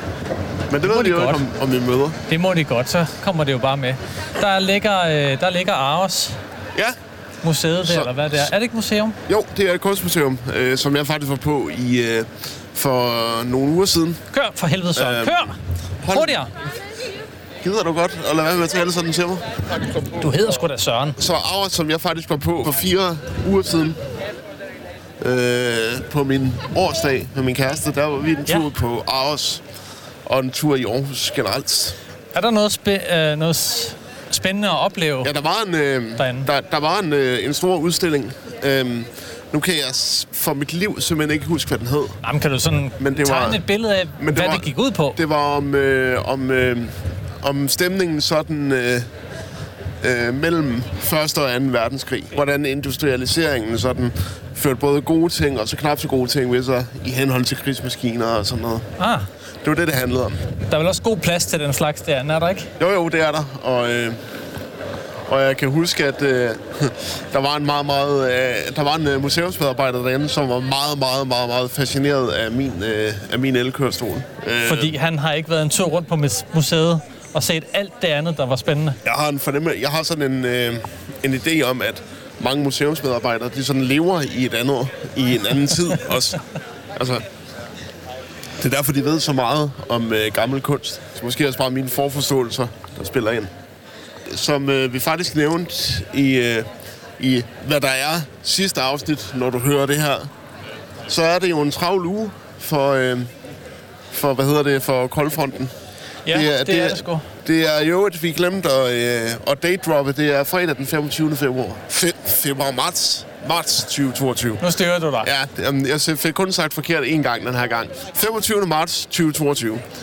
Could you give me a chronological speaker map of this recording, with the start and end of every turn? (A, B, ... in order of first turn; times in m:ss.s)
0:00.7-0:02.2 A
0:00.8-0:01.4 B
0:02.3-0:06.4 B
0:07.4-0:09.2 B
0:07.8-0:08.3 A
0:09.3-0:14.2 A
0:14.3-0:15.6 B
0:15.0-0:16.5 A
0:16.1-0:16.5 B
0:17.6-0:19.5 A
0:20.1-0:21.2 B
0:21.2-0:24.0 A
0:25.2-0:29.6 A
0:30.3-0:32.0 A
0:32.3-0:35.3 B
0:35.2-0:42.2 A
0:36.2-0:36.5 B
0:42.2-0:45.2 B
0:43.0-0:43.6 A
0:44.2-0:49.1 A
0:50.0-0:58.9 A
0:59.0-0:59.3 B
0:59.6-1:00.4 A
1:00.7-1:02.7 B
1:02.8-1:04.2 A
1:05.3-1:15.0 A
1:14.6-1:19.0 B
1:19.0-1:26.4 A
1:27.0-1:27.3 A
1:28.6-1:33.5 A
1:34.2-1:40.3 A
1:41.1-1:43.3 A
1:44.1-1:45.8 A
1:46.3-1:47.3 B
1:46.3-1:54.7 A
1:54.6-1:55.3 B
1:55.2-1:59.9 A